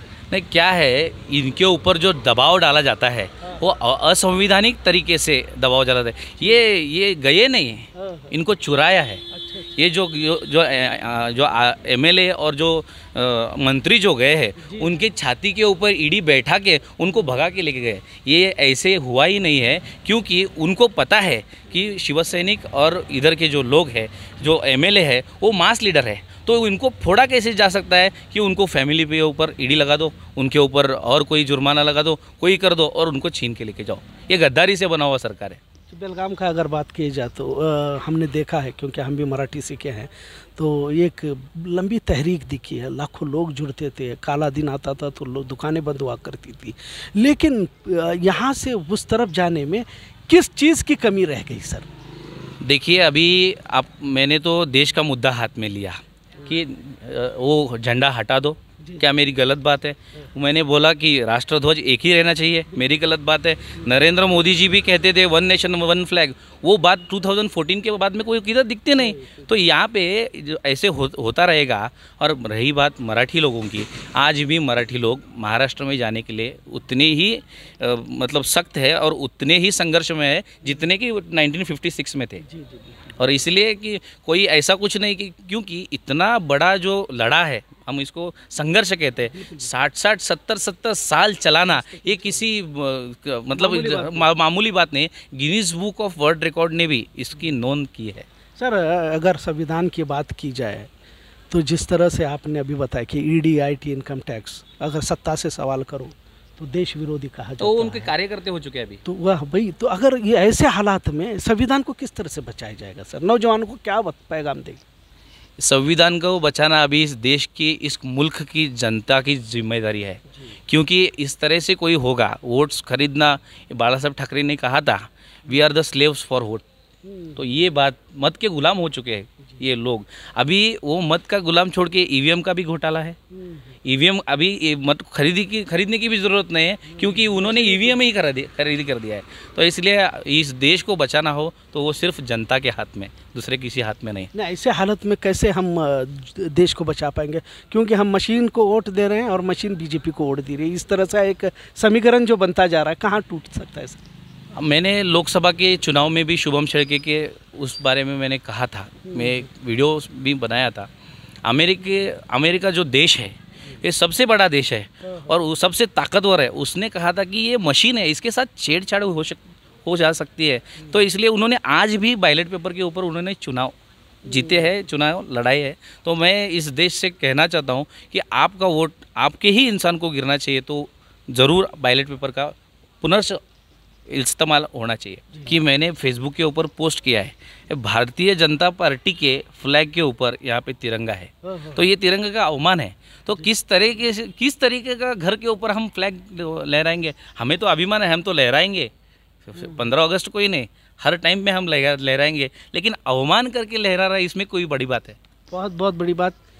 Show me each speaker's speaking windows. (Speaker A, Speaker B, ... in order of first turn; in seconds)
Speaker A: 0.3-9.2, 9.8-35.6, 52.6-82.4, 83.1-98.2, 107.6-109.0, 115.6-126.6, 127.3-133.2, 133.8-144.3, 154.5-160.9, 161.4-173.7, 174.3-183.4, 184.1-198.9, 199.4-205.2
Speaker B: 8.0-8.3, 9.3-9.8, 14.6-14.9, 35.9-51.9, 69.0-69.4, 82.4-83.2, 89.3-89.7, 91.6-92.5, 93.5-94.3, 98.6-100.9, 101.5-108.1, 109.0-114.8, 127.0-127.4, 133.4-133.7, 136.9-138.0, 144.3-154.0, 159.1-159.4, 165.1-165.3, 174.3-174.7, 191.4-191.8, 199.6-199.8, 205.5-206.3